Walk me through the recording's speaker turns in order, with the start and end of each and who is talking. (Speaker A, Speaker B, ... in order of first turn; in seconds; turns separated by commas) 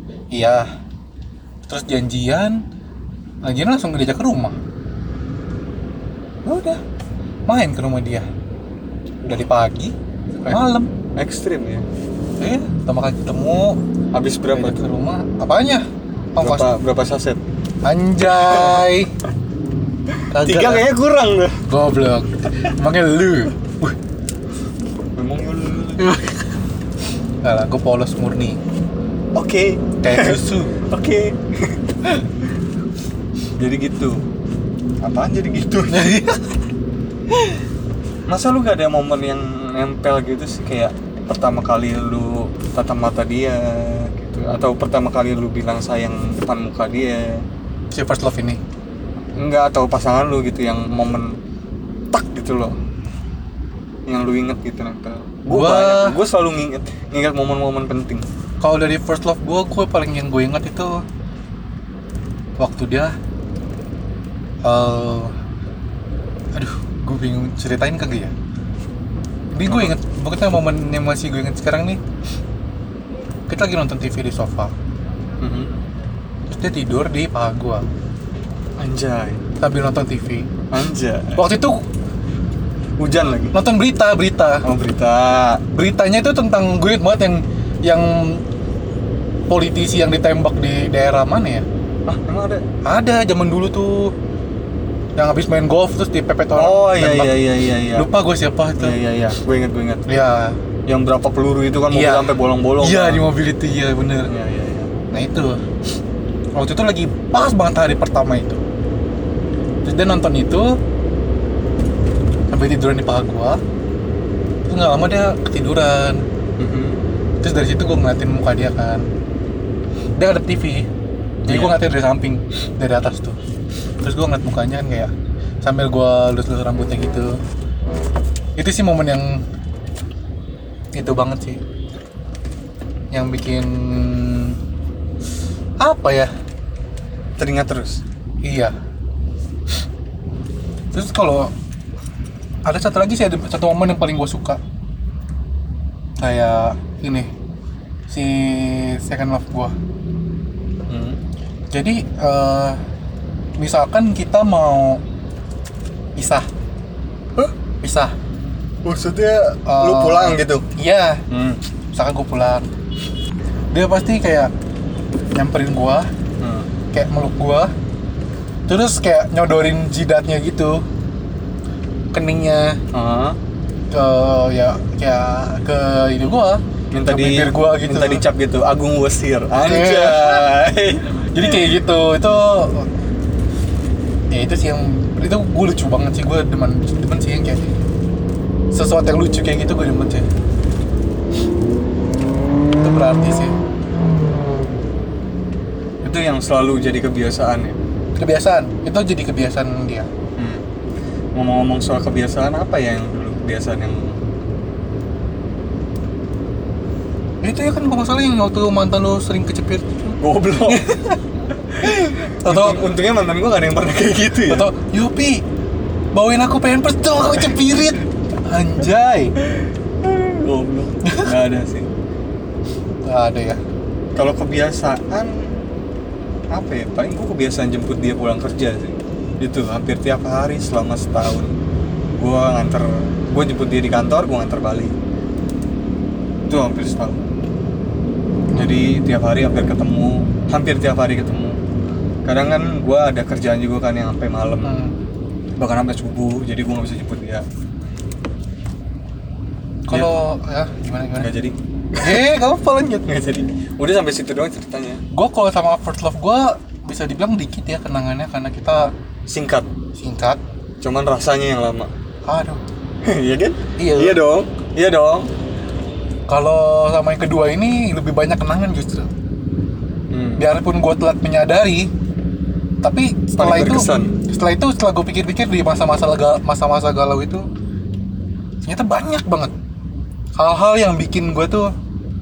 Speaker A: 0.3-0.7, Speaker A: 1.7-2.6, Speaker A: 3.4-4.5, Speaker B: 6.4-6.8, Speaker A: 7.5-8.3, Speaker A: 9.2-10.9, Speaker B: 11.2-11.8, Speaker A: 12.4-13.8, Speaker B: 14.1-14.9, Speaker A: 14.5-16.7, Speaker B: 16.4-17.4, Speaker A: 17.8-19.1, Speaker B: 18.3-18.9, Speaker B: 20.1-21.6, Speaker A: 20.3-20.9, Speaker A: 21.7-23.9, Speaker B: 25.1-26.1, Speaker A: 26.0-26.4, Speaker A: 27.4-28.6, Speaker B: 29.3-31.8, Speaker A: 30.0-30.7, Speaker B: 33.6-34.2, Speaker B: 35.0-36.1, Speaker A: 35.9-36.5, Speaker B: 38.3-47.4, Speaker A: 47.9-48.6, Speaker B: 49.4-51.4, Speaker B: 52.1-52.7, Speaker B: 54.1-58.2, Speaker A: 55.5-56.2, Speaker A: 58.6-61.0, Speaker A: 62.6-63.1, Speaker A: 64.6-65.3, Speaker A: 66.5-68.3, Speaker A: 69.5-72.0, Speaker B: 69.7-69.9, Speaker A: 73.5-74.7, Speaker B: 75.4-75.8, Speaker A: 76.5-77.8, Speaker B: 78.8-79.4, Speaker A: 79.6-80.5, Speaker B: 80.7-81.4, Speaker A: 81.3-81.8, Speaker B: 83.0-83.5, Speaker A: 83.5-84.7, Speaker B: 84.6-85.6, Speaker A: 85.7-88.4, Speaker A: 89.5-91.6, Speaker B: 92.1-92.7, Speaker A: 92.8-94.1, Speaker A: 95.2-97.4, Speaker B: 96.5-98.1, Speaker A: 97.9-99.0, Speaker B: 98.8-100.1, Speaker A: 100.1-100.6, Speaker B: 100.9-103.2, Speaker A: 101.9-104.3, Speaker B: 104.3-104.9, Speaker A: 105.1-105.6, Speaker A: 106.5-108.6, Speaker A: 109.8-110.8, Speaker A: 112.5-113.6, Speaker A: 114.7-116.2, Speaker B: 116.6-117.0, Speaker A: 117.4-119.0, Speaker A: 120.2-120.9, Speaker A: 121.4-123.3, Speaker B: 121.5-121.8, Speaker A: 124.0-125.1, Speaker A: 125.6-127.4, Speaker A: 128.6-129.4, Speaker A: 130.9-131.6, Speaker A: 133.1-134.6, Speaker A: 135.8-136.3, Speaker B: 137.4-138.0, Speaker A: 138.4-138.7, Speaker A: 140.9-141.5, Speaker A: 142.7-144.6, Speaker A: 146.2-147.3, Speaker A: 148.1-149.7, Speaker B: 150.9-151.2, Speaker A: 151.7-152.8, Speaker A: 153.6-155.0, Speaker A: 156.2-156.5, Speaker A: 157.8-158.1, Speaker B: 158.8-160.6, Speaker A: 159.7-161.2, Speaker B: 161.3-161.6, Speaker A: 161.9-162.7, Speaker A: 163.7-164.5, Speaker A: 165.3-166.1, Speaker B: 166.4-166.7, Speaker A: 166.9-167.7, Speaker A: 168.7-170.8, Speaker A: 172.1-172.8, Speaker B: 172.9-173.4, Speaker A: 173.9-178.2, Speaker B: 176.9-181.6, Speaker A: 179.7-180.5, Speaker A: 181.3-182.9, Speaker A: 184.3-187.6, Speaker A: 188.7-190.2, Speaker A: 192.8-193.6, Speaker B: 196.0-197.8, Speaker A: 198.2-200.1, Speaker B: 200.4-200.6, Speaker B: 201.3-204.2, Speaker A: 207.4-211.2, Speaker B: 210.2-210.9, Speaker B: 211.7-214.7, Speaker A: 211.8-212.8, Speaker A: 214.5-215.4, Speaker A: 216.1-219.3, Speaker B: 219.4-221.9, Speaker A: 221.0-221.3, Speaker A: 223.1-223.6, Speaker B: 224.1-225.5, Speaker B: 226.5-231.5, Speaker B: 232.2-234.9, Speaker B: 236.5-237.2, Speaker A: 238.5-238.9, Speaker B: 238.6-241.6, Speaker B: 242.2-244.8, Speaker A: 244.6-244.9, Speaker B: 245.6-247.4, Speaker A: 249.9-251.3, Speaker B: 251.2-252.2, Speaker A: 252.0-253.0, Speaker B: 253.1-255.0, Speaker A: 255.1-258.9, Speaker B: 259.3-259.7, Speaker A: 260.0-260.4, Speaker B: 260.8-261.9, Speaker A: 262.3-262.6, Speaker B: 263.0-265.3, Speaker A: 263.8-264.2, Speaker A: 266.3-269.1, Speaker B: 270.1-270.5, Speaker A: 270.4-271.9, Speaker A: 272.8-277.4, Speaker B: 273.4-274.1, Speaker A: 278.6-279.5, Speaker A: 280.4-281.7